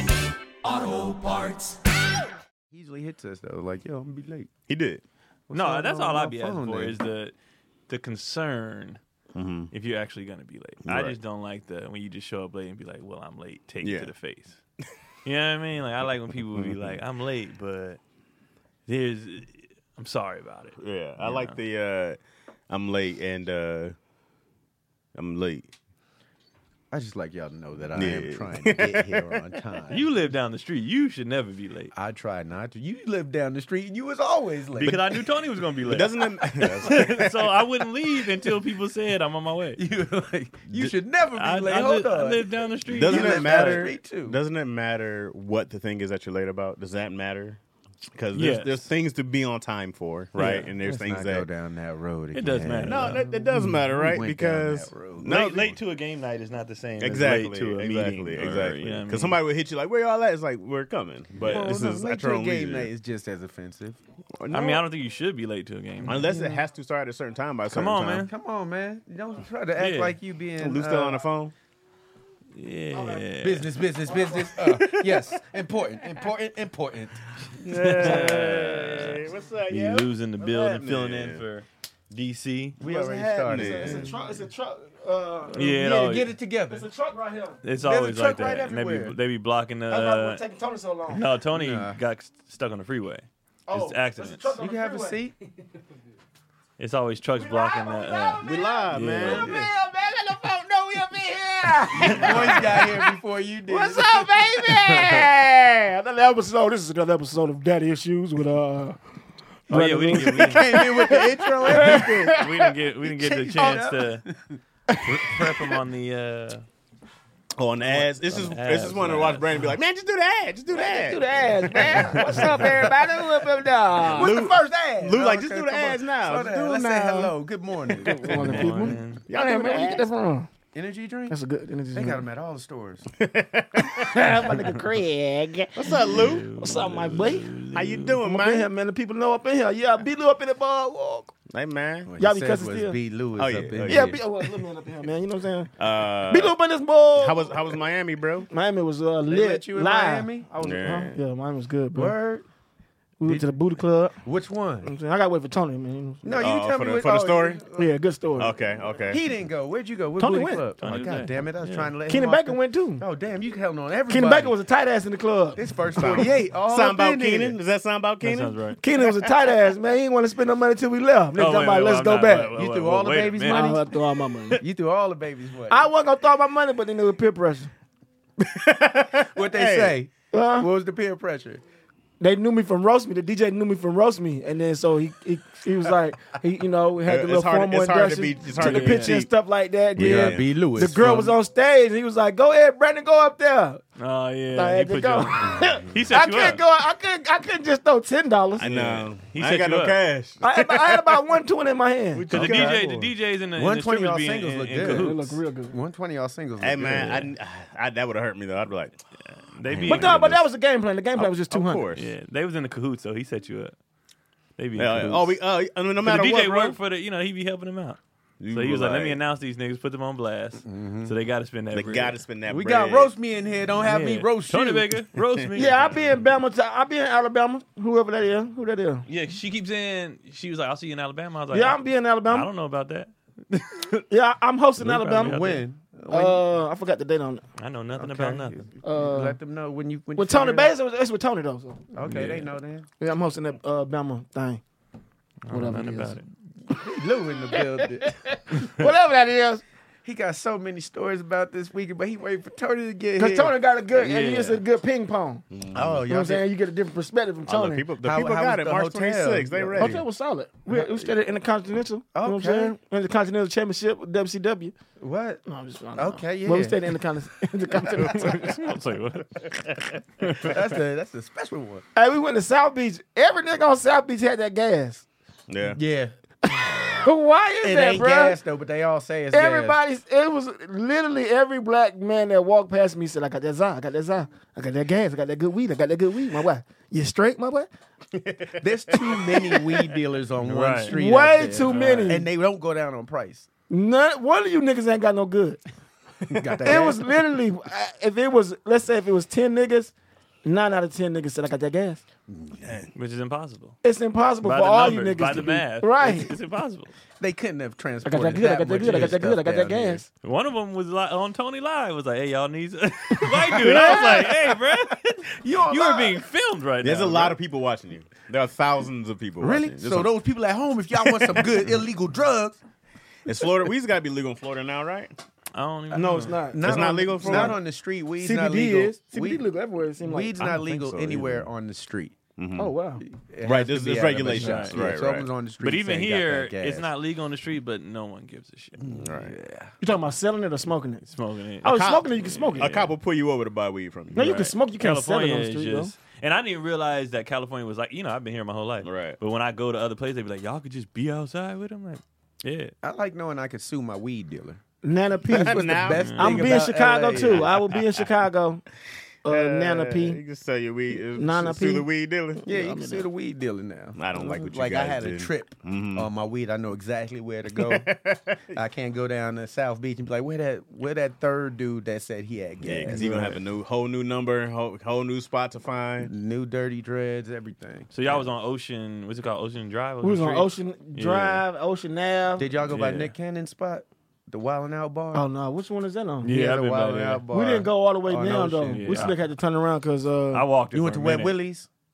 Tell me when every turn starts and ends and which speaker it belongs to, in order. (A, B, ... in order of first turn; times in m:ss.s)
0:00.6-0:01.8 A
0:02.7-0:04.5 B
0:04.7-0:05.0 C
0:05.5-0:07.0 B
0:05.5-0:07.3 A
0:07.9-0:09.0 A
0:09.4-0:09.7 C
0:09.7-0:14.6 A
0:10.9-0:11.2 C
0:13.8-0:14.1 C
0:15.2-0:18.0 A
0:16.6-0:17.0 C
0:18.9-0:21.6 A
0:20.8-0:22.2 C
0:22.7-0:24.0 C
0:25.2-0:25.7 C
0:26.9-0:30.1 B
0:28.0-0:29.3 C
0:29.9-0:31.9 A
0:31.9-0:35.2 B
0:34.8-0:39.8 A
0:35.8-0:37.3 C
0:36.5-0:37.2 B
0:39.8-0:44.4 B
0:41.4-0:43.9 A
0:42.9-0:47.6 C
0:48.2-0:51.5 C
0:48.3-0:48.9 A
0:50.4-0:50.7 A
0:50.8-0:55.4 B
0:52.3-0:53.6 A
0:52.8-0:55.8 C
0:55.3-0:59.4 A
0:57.0-1:02.9 C
1:01.4-1:01.8 A
1:01.4-1:04.0 B
1:04.4-1:04.9 C
1:04.5-1:06.3 A
1:06.0-1:08.3 C
1:06.1-1:06.6 D
1:07.7-1:08.3 A
1:08.3-1:11.2 B
1:09.8-1:10.2 A
1:10.6-1:11.5 C
1:12.5-1:13.8 A
1:13.0-1:13.2 D
1:13.4-1:17.2 B
1:14.1-1:14.4 D
1:17.6-1:21.4 C
1:17.6-1:22.8 A
1:18.0-1:18.4 B
1:22.8-1:24.1 C
1:22.8-1:24.2 B
1:23.5-1:25.6 D
1:25.5-1:26.3 A
1:25.5-1:26.8 B
1:26.7-1:27.6 D
1:27.6-1:30.4 A
1:27.8-1:29.2 B
1:29.9-1:31.2 D
1:31.1-1:34.6 A
1:31.5-1:32.0 B
1:33.7-1:35.2 D
1:34.6-1:35.3 B
1:36.8-1:39.5 A
1:37.4-1:43.1 D
1:38.4-1:39.5 C
1:39.4-1:39.7 B
1:41.9-1:44.9 B
1:42.1-1:42.7 A
1:43.7-1:49.0 D
1:49.7-1:52.7 D
1:49.7-1:50.9 A
1:50.1-1:54.6 B
1:51.7-1:54.3 A
1:55.0-1:56.6 A
1:57.6-2:02.9 C
1:57.8-1:59.8 A
2:00.7-2:04.4 D
2:01.8-2:02.2 B
2:04.0-2:08.9 B
2:04.0-2:07.3 C
2:08.0-2:10.5 D
2:08.4-2:09.2 A
2:09.3-2:10.1 C
2:10.7-2:11.4 B
2:11.3-2:12.2 D
2:11.9-2:13.1 B
2:13.2-2:14.3 C
2:13.8-2:17.5 D
2:15.8-2:16.4 C
2:15.9-2:18.2 A
2:17.7-2:18.7 C
2:18.2-2:21.3 D
2:21.5-2:22.1 C
2:22.0-2:24.2 B
2:22.2-2:23.0 D
2:23.4-2:24.6 C
2:23.9-2:25.7 D
2:25.8-2:26.6 C
2:26.3-2:27.6 D
2:27.2-2:28.5 C
2:28.5-2:32.2 D
2:29.3-2:31.0 B
2:30.6-2:31.2 C
2:31.9-2:32.4 B
2:33.2-2:34.1 D
2:33.2-2:33.5 B
2:34.2-2:34.9 B
2:34.8-2:36.2 D
2:36.2-2:37.9 B
2:36.3-2:37.6 C
2:37.7-2:38.5 D
2:38.4-2:39.2 C
2:39.0-2:44.5 B
2:40.2-2:40.6 D
2:40.8-2:41.9 A
2:42.1-2:43.0 D
2:44.1-2:45.6 D
2:45.6-2:47.6 B
2:46.0-2:48.6 C
2:48.2-2:48.8 A
2:48.8-2:52.5 D
2:51.4-2:53.8 A
2:52.6-2:53.8 B
2:53.4-2:54.6 D
2:54.6-2:55.8 B
2:55.7-2:57.7 D
2:58.4-3:00.0 C
2:59.3-3:01.6 B
3:00.3-3:00.7 D
3:02.2-3:13.8 D
3:07.0-3:09.3 C
3:08.6-3:09.2 A
3:10.0-3:10.4 C
3:10.0-3:11.4 B
3:14.0-3:16.6 A
3:14.6-3:18.7 D
3:18.6-3:21.3 C
3:18.6-3:20.0 A
3:20.4-3:22.2 D
3:22.1-3:22.9 C
3:22.3-3:25.4 A
3:22.3-3:27.2 B
3:24.8-3:25.8 D
3:26.6-3:29.0 C
3:26.8-3:27.3 A
3:29.3-3:30.3 A
3:29.7-3:30.4 C
3:29.8-3:31.9 D
3:31.2-3:32.1 C
3:31.9-3:33.8 A
3:34.6-3:35.4 A
3:34.8-3:36.8 C
3:36.0-3:38.0 A
3:38.4-3:39.2 C
3:38.5-3:42.2 A
3:40.6-3:41.1 B
3:41.7-3:43.1 C
3:42.5-3:45.0 B
3:43.8-3:45.9 A
3:45.5-3:46.0 C
3:45.6-3:49.0 D
3:49.1-3:54.0 A
3:51.5-3:52.5 D
3:54.1-3:55.5 D
3:54.8-3:55.6 A
3:54.9-3:56.4 B
3:56.1-3:57.4 D
3:57.6-3:58.6 A
3:58.0-4:00.7 B
3:58.8-3:59.4 D
4:00.2-4:01.8 D
4:01.9-4:02.9 B
4:02.0-4:02.5 A
4:03.0-4:04.6 D
4:05.5-4:06.2 A
4:05.5-4:06.2 D
4:06.7-4:08.1 B
4:07.5-4:09.6 D
4:10.0-4:13.6 B
4:13.2-4:15.4 D
4:13.9-4:14.6 A
4:15.5-4:16.0 C
4:15.7-4:16.5 B
4:16.1-4:17.8 D
4:17.5-4:20.0 C
4:18.0-4:20.0 B
4:19.8-4:24.7 D
4:20.7-4:21.1 B
4:22.1-4:22.8 B
4:25.0-4:25.4 B
4:25.5-4:28.6 D
4:26.0-4:27.0 B
4:28.0-4:30.6 A
4:29.7-4:30.0 C
4:30.4-4:31.8 B
4:32.0-4:35.0 D
4:35.5-4:35.8 C
4:35.7-4:36.1 B
4:36.5-4:38.4 D
4:37.6-4:39.8 B
4:39.3-4:47.7 D
4:48.2-4:49.6 C
4:48.6-4:53.5 B
4:50.4-4:51.0 A
4:50.9-4:52.3 D
4:51.7-4:52.1 A
4:53.7-4:55.6 D
4:56.3-4:57.1 B
4:56.3-4:56.9 C
4:56.6-4:59.9 D
5:00.4-5:02.0 D
5:02.3-5:02.6 B
5:02.6-5:02.9 C
5:02.9-5:03.8 A
5:03.8-5:06.3 D
5:04.4-5:06.9 A
5:07.2-5:10.1 B
5:08.0-5:10.0 D
5:08.8-5:09.2 A
5:10.2-5:17.4 A
5:13.5-5:14.3 D
5:13.6-5:14.3 B
5:15.4-5:16.2 B
5:16.8-5:20.1 C
5:19.4-5:22.6 B
5:23.3-5:25.1 C
5:25.6-5:26.5 A
5:25.9-5:27.6 D
5:26.5-5:29.5 B
5:26.6-5:27.6 C
5:28.2-5:30.4 D
5:30.0-5:32.2 B
5:30.4-5:30.8 A
5:30.7-5:31.5 C
5:32.4-5:32.7 C
5:32.6-5:33.0 D
5:33.0-5:36.9 B
5:33.4-5:35.3 C
5:34.3-5:34.8 A
5:35.6-5:39.1 A
5:38.8-5:39.8 B
5:39.0-5:39.4 C
5:39.8-5:41.0 D
5:41.1-5:42.9 A
5:41.6-5:42.8 D
5:41.7-5:44.5 C
5:44.2-5:45.9 D
5:44.2-5:52.7 A
5:48.8-5:49.2 C
5:52.8-5:54.6 B
5:54.8-5:58.6 D
5:55.2-5:57.5 B
5:55.4-5:56.4 C
5:56.0-5:56.3 A
5:57.2-5:58.1 C
5:59.2-6:00.2 D
5:59.2-6:02.4 C
6:01.2-6:03.1 D
6:02.4-6:07.9 B
6:04.0-6:06.1 C
6:07.6-6:08.6 C
6:08.5-6:13.2 B
6:12.6-6:16.1 C
6:12.9-6:13.4 D
6:16.0-6:18.2 B
6:17.9-6:21.4 A
6:20.0-6:22.5 D
6:22.4-6:25.3 B
6:22.7-6:23.1 A
6:25.1-6:26.3 D
6:26.2-6:27.2 A
6:26.2-6:29.2 B
6:27.3-6:30.4 D
6:28.3-6:29.2 A
6:30.3-6:31.4 A
6:30.7-6:31.7 B